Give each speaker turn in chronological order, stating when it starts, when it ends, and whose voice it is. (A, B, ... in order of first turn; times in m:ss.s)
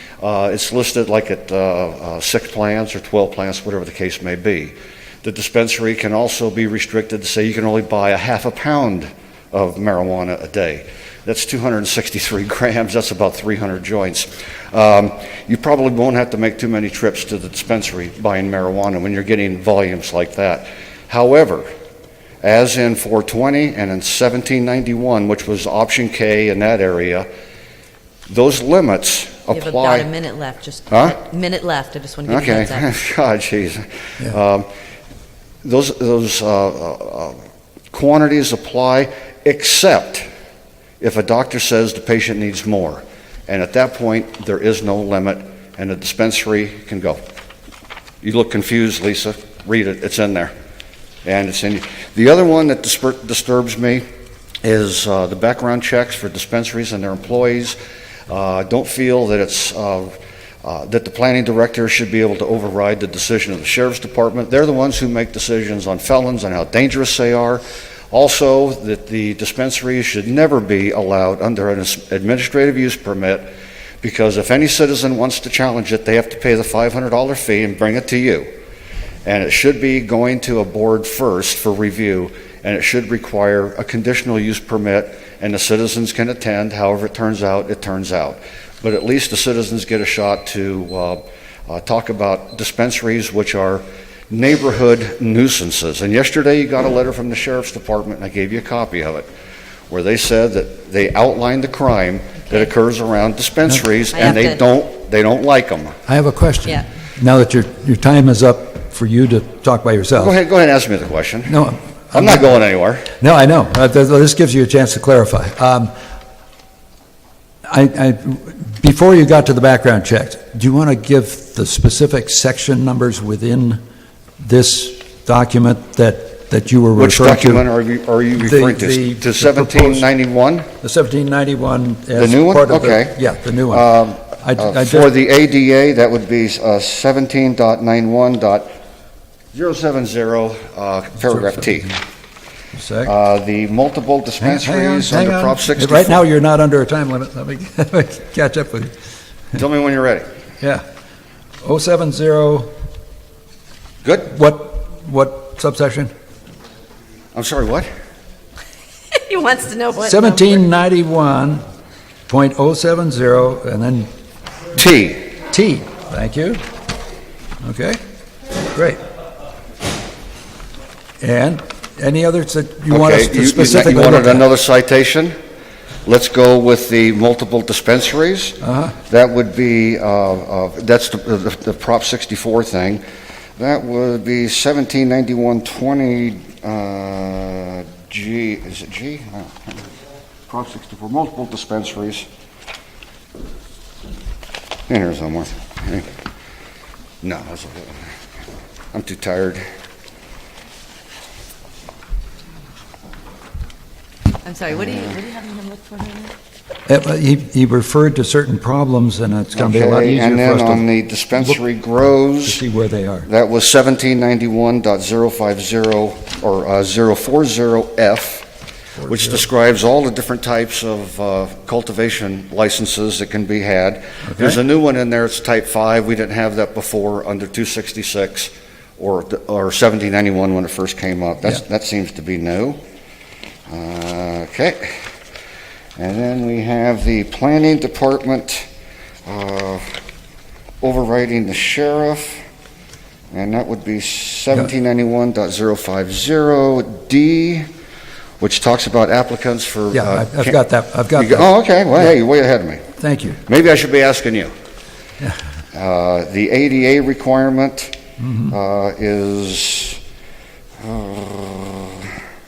0:00.2-0:21.7 A
0:22.4-0:27.3 A
0:28.3-0:30.1 A
0:29.5-0:32.8 B
0:30.9-0:31.2 A
0:32.3-0:34.7 A
0:35.6-0:37.4 A
0:37.9-0:40.3 A
0:41.0-0:47.2 A
0:48.2-0:50.5 A
0:51.2-0:54.1 A
0:54.6-0:57.8 A
0:58.3-1:13.5 A
1:14.0-1:18.5 A
1:19.2-1:39.3 A
1:39.9-1:46.0 A
1:44.1-1:44.6 B
1:46.1-1:50.4 C
1:50.2-1:51.6 A
1:51.5-1:52.5 C
1:52.1-1:53.1 A
1:53.2-1:55.9 C
1:57.7-2:03.8 C
2:04.4-2:07.6 C
2:07.0-2:10.7 A
2:08.4-2:10.1 C
2:10.8-2:15.1 C
2:12.1-2:18.7 A
2:19.5-2:22.0 A
2:21.3-2:22.0 C
2:22.7-2:23.1 C
2:23.0-2:26.2 A
2:24.4-2:28.9 C
2:29.6-2:30.2 A
2:31.6-2:32.7 C
2:34.0-2:34.3 A
2:34.3-2:36.1 C
2:37.3-2:37.9 A
2:39.1-2:40.6 B
2:40.0-2:41.6 C
2:42.3-2:44.1 C
2:44.8-2:45.3 A
2:45.5-2:46.6 C
2:47.6-2:48.0 C
2:48.8-2:49.0 C
2:51.2-2:54.5 C
2:52.9-2:55.4 A
2:56.0-3:03.0 A
2:58.6-2:59.0 C
3:03.6-3:09.8 A
3:10.5-3:12.3 A
3:14.9-3:16.1 A
3:17.2-3:18.1 A
3:18.9-3:19.6 A
3:24.4-3:26.3 B
3:26.9-3:31.6 C
3:29.5-3:32.6 A
3:32.4-3:33.3 C
3:33.3-3:38.5 A
3:39.0-3:39.4 C
3:39.0-3:52.8 A
3:44.2-3:44.6 C
3:53.7-3:55.0 A
3:56.0-3:58.7 A
3:59.3-4:00.0 A
4:00.8-4:02.4 A
4:03.3-4:07.7 A
4:08.4-4:10.6 A
4:09.9-4:11.5 C
4:11.2-4:12.8 A
4:13.0-4:13.4 C
4:13.5-4:14.5 A
4:15.7-4:20.0 A
4:18.2-4:18.5 C
4:20.8-4:22.1 A